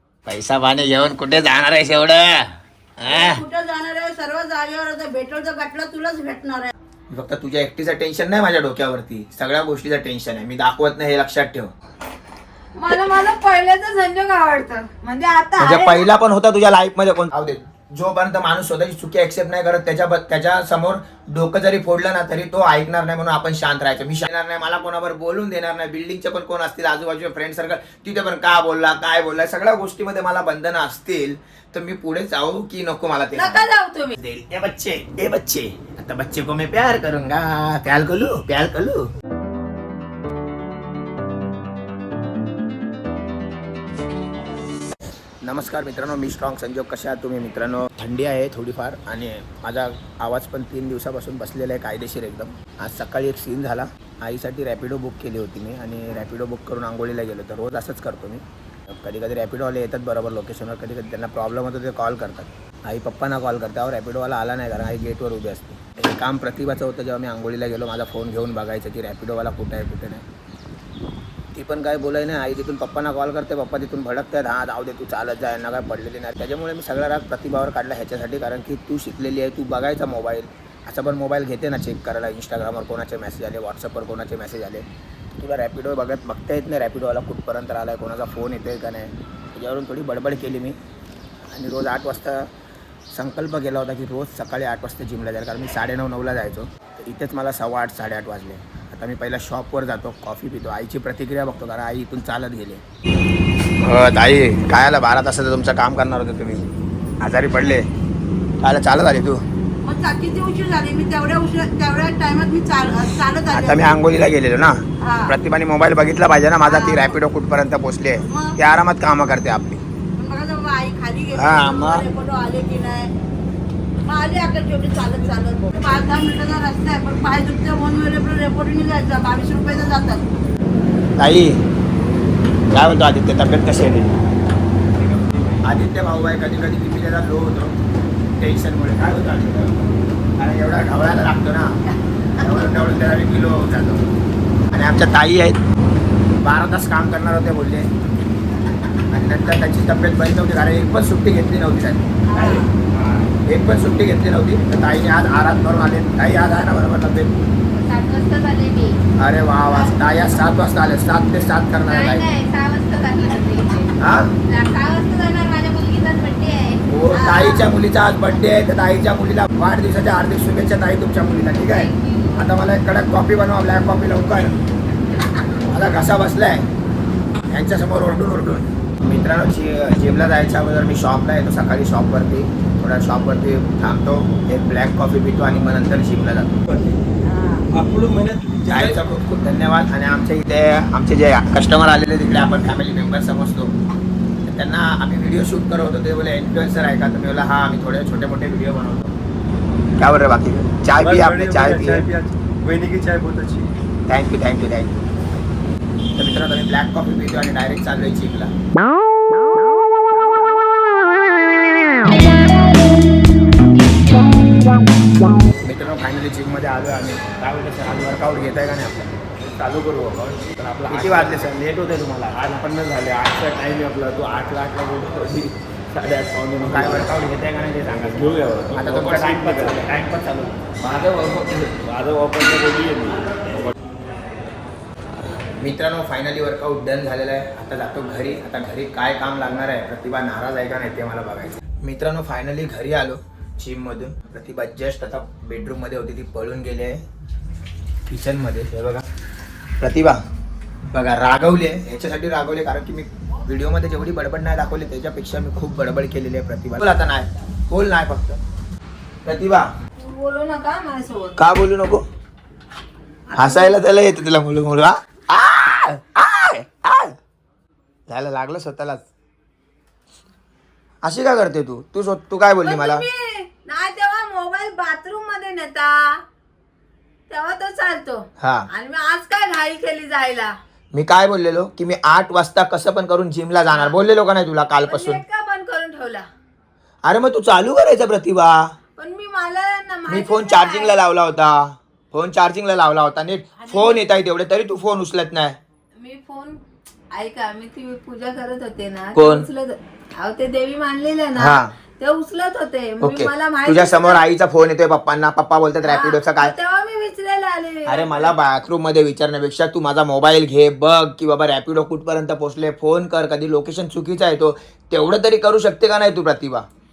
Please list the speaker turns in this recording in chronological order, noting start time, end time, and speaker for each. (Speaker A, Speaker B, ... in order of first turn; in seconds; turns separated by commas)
Speaker A: 0.2-2.5, Speaker A: 3.0-3.4, Speaker B: 3.0-6.7, Speaker A: 7.1-11.7, Speaker B: 12.8-13.1, Speaker C: 12.8-16.1, Speaker A: 15.6-33.6, Speaker C: 33.3-34.2, Speaker A: 34.2-39.1, Speaker A: 45.4-70.2, Speaker A: 71.5-84.8, Speaker A: 85.4-90.8, Speaker A: 91.5-92.5, Speaker A: 93.1-102.8, Speaker A: 103.8-106.6, Speaker A: 107.2-107.9, Speaker A: 108.6-109.4, Speaker B: 109.8-113.9, Speaker A: 113.5-119.8, Speaker B: 115.0-115.3, Speaker B: 116.6-117.2, Speaker B: 118.2-118.6, Speaker B: 120.2-123.1, Speaker A: 121.3-122.0, Speaker B: 124.0-130.2, Speaker A: 131.2-131.6, Speaker A: 132.7-134.2, Speaker D: 135.1-135.6, Speaker A: 135.6-137.8, Speaker A: 138.4-139.8, Speaker A: 140.4-141.8, Speaker A: 142.4-144.0, Speaker A: 144.7-145.6, Speaker A: 146.4-147.9, Speaker A: 149.1-152.6, Speaker C: 152.3-152.6, Speaker B: 152.3-152.7, Speaker A: 153.4-157.4, Speaker C: 157.7-159.0, Speaker A: 159.2-162.2, Speaker C: 161.9-167.7, Speaker A: 164.0-164.3, Speaker A: 166.9-174.6, Speaker C: 171.6-172.4, Speaker A: 175.5-176.7, Speaker A: 177.5-186.6, Speaker B: 187.2-187.7, Speaker D: 187.7-189.1, Speaker A: 188.6-193.7, Speaker A: 194.4-199.1, Speaker A: 200.0-202.1, Speaker D: 200.9-203.7, Speaker A: 204.1-205.0, Speaker A: 206.2-208.5, Speaker A: 215.6-219.2, Speaker D: 219.4-221.5, Speaker A: 220.9-222.6, Speaker D: 222.5-227.1, Speaker A: 226.6-230.8, Speaker D: 228.1-229.9, Speaker D: 230.8-233.7, Speaker A: 235.6-247.0, Speaker A: 248.1-249.1, Speaker A: 249.8-250.2, Speaker A: 250.9-258.4, Speaker A: 259.2-259.7, Speaker C: 260.0-261.4, Speaker A: 261.4-262.0, Speaker C: 263.3-263.8, Speaker A: 263.4-267.1, Speaker A: 268.1-269.0, Speaker A: 271.0-273.0, Speaker C: 272.6-276.2, Speaker C: 277.3-280.6, Speaker A: 278.4-278.7, Speaker A: 280.9-285.2, Speaker C: 283.7-283.9, Speaker C: 284.9-286.3, Speaker A: 287.0-288.7, Speaker C: 289.0-291.0, Speaker A: 290.1-295.6, Speaker C: 296.0-296.6, Speaker C: 297.1-304.2, Speaker A: 299.1-299.5, Speaker A: 301.4-301.7, Speaker A: 303.0-306.5, Speaker C: 305.8-308.3, Speaker A: 307.9-316.7